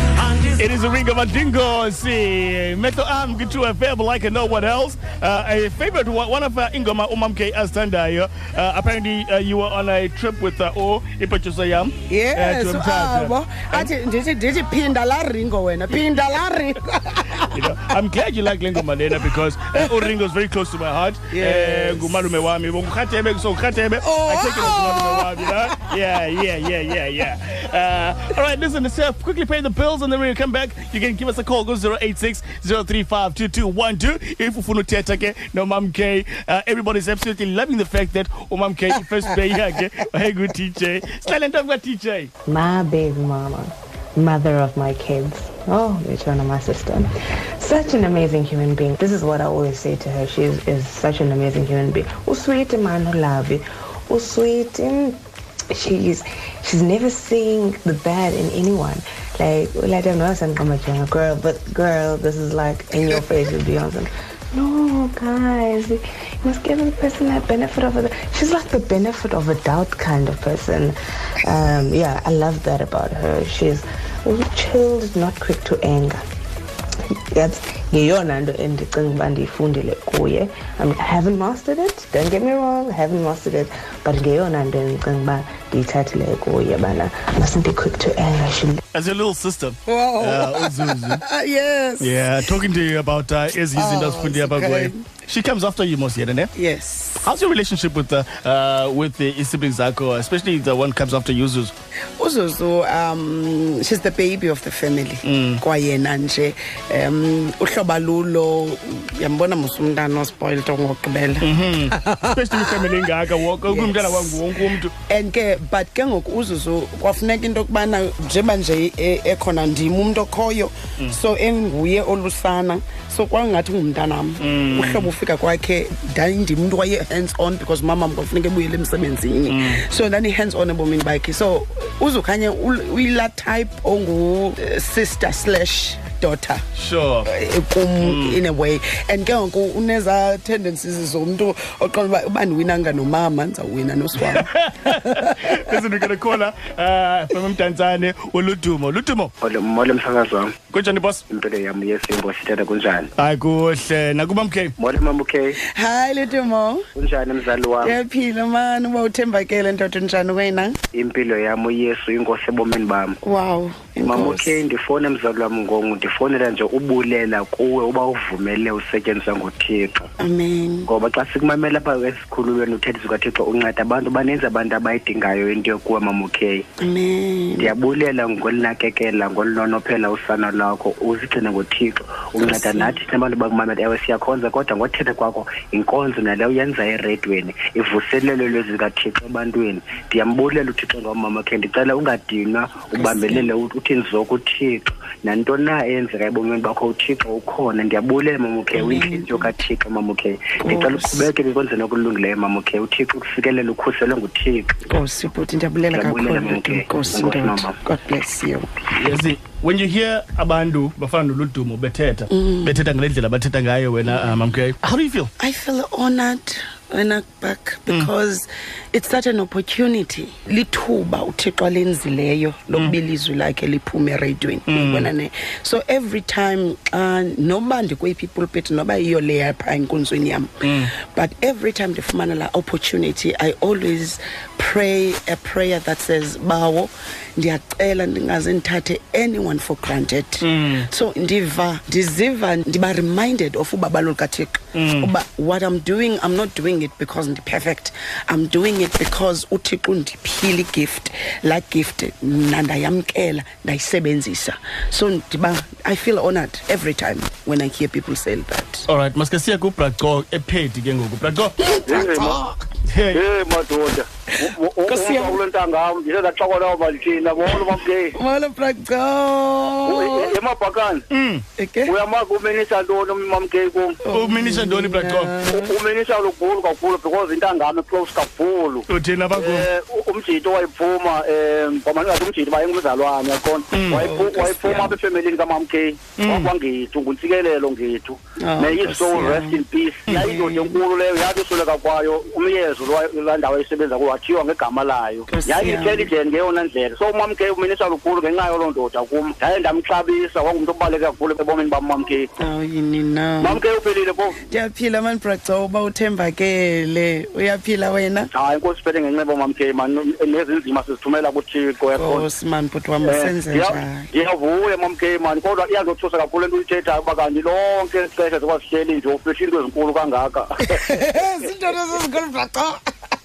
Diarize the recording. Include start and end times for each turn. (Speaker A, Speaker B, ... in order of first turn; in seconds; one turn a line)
Speaker A: 0.3-13.9
Speaker B: 12.1-17.9
Speaker A: 17.4-42.3
Speaker B: 19.8-20.1
Speaker B: 21.3-22.3
Speaker B: 24.0-25.9
Speaker C: 42.5-55.2
Speaker C: 55.7-76.2
Speaker C: 77.3-88.8
Speaker A: 88.9-91.2
Speaker B: 89.9-92.5
Speaker A: 92.0-96.5
Speaker B: 93.7-95.0
Speaker B: 96.5-97.3
Speaker A: 97.2-101.7
Speaker B: 102.2-136.6
Speaker A: 105.2-105.6
Speaker A: 111.4-114.9
Speaker A: 124.4-125.1
Speaker A: 129.5-129.8
Speaker A: 136.8-137.3
Speaker B: 137.2-145.8
Speaker A: 138.0-138.4
Speaker A: 144.2-149.3
Speaker D: 149.4-150.6
Speaker A: 150.7-151.2
Speaker D: 151.3-153.1
Speaker A: 153.2-154.7
Speaker D: 154.8-155.6
Speaker B: 155.6-156.8
Speaker D: 157.0-158.0
Speaker B: 157.8-160.8
Speaker D: 160.9-163.2
Speaker B: 163.2-164.6
Speaker D: 164.0-170.1
Speaker B: 170.2-170.9
Speaker D: 170.9-176.7
Speaker B: 176.8-177.8
Speaker D: 177.6-204.8
Speaker B: 182.4-182.9
Speaker B: 192.9-193.5
Speaker B: 198.7-199.5
Speaker B: 200.6-201.3
Speaker B: 204.9-208.7
Speaker D: 205.9-207.8
Speaker A: 208.9-215.3
Speaker B: 212.3-212.8
Speaker B: 214.1-214.4
Speaker B: 215.4-258.9
Speaker A: 224.7-225.1
Speaker A: 230.6-230.9
Speaker A: 240.4-240.9
Speaker A: 244.8-245.1
Speaker A: 258.9-261.6
Speaker B: 261.6-262.6
Speaker E: 261.9-262.4
Speaker A: 262.9-263.2
Speaker E: 263.1-268.1
Speaker B: 264.9-265.4
Speaker B: 268.1-270.4
Speaker E: 269.9-271.0
Speaker A: 271.1-271.4
Speaker B: 271.6-271.9
Speaker E: 271.9-274.0
Speaker B: 274.1-275.7
Speaker A: 274.1-275.3
Speaker E: 275.5-278.9
Speaker A: 278.9-279.7
Speaker E: 279.4-302.2
Speaker A: 283.7-284.1
Speaker B: 283.9-284.9
Speaker A: 286.2-286.5
Speaker B: 288.4-289.6
Speaker B: 290.1-290.8
Speaker B: 295.3-296.1
Speaker B: 302.4-303.6
Speaker E: 303.4-304.4
Speaker B: 304.5-308.3
Speaker E: 308.3-312.2
Speaker B: 311.9-314.1
Speaker E: 313.0-320.8
Speaker B: 320.7-322.8